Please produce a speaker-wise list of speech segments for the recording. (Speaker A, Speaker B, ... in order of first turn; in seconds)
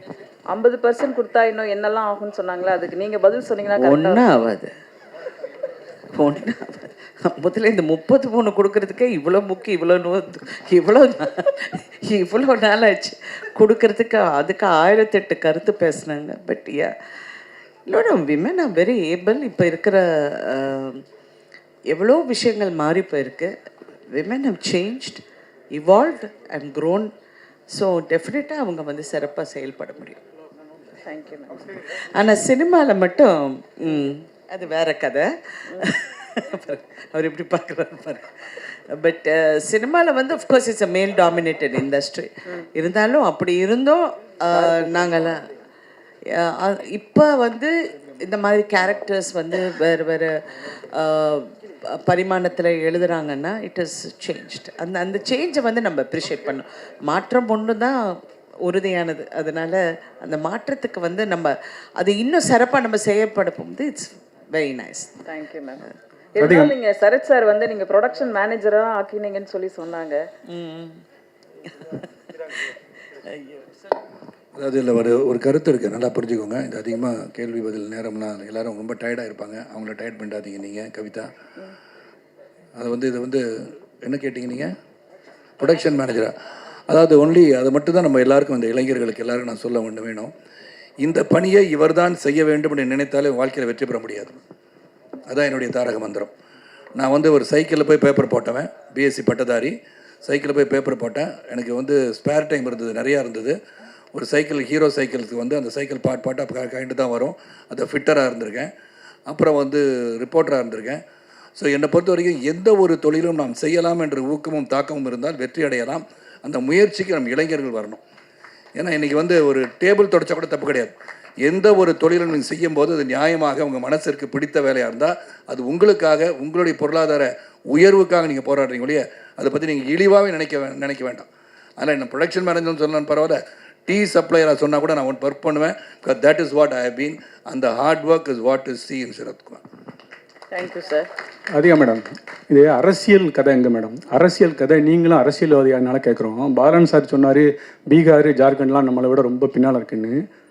Speaker A: 0.5-4.2, 31.1-31.6, 65.3-70.2, 140.5-141.1
Speaker B: 3.8-4.7, 6.2-16.9, 17.9-21.0, 21.9-23.5, 24.1-25.2, 25.7-27.1, 27.7-30.2, 31.7-45.4, 46.3-65.1, 70.5-71.0, 71.7-72.5, 73.2-73.7
Speaker C: 66.4-66.7, 141.5-150.2
Speaker D: 74.5-81.3, 82.8-83.4, 84.0-84.7, 85.6-86.3, 86.9-90.3, 91.0-94.3, 95.3-96.3, 97.0-103.5, 104.1-108.7, 109.3-111.0, 111.6-118.0, 118.8-131.3, 131.8-139.6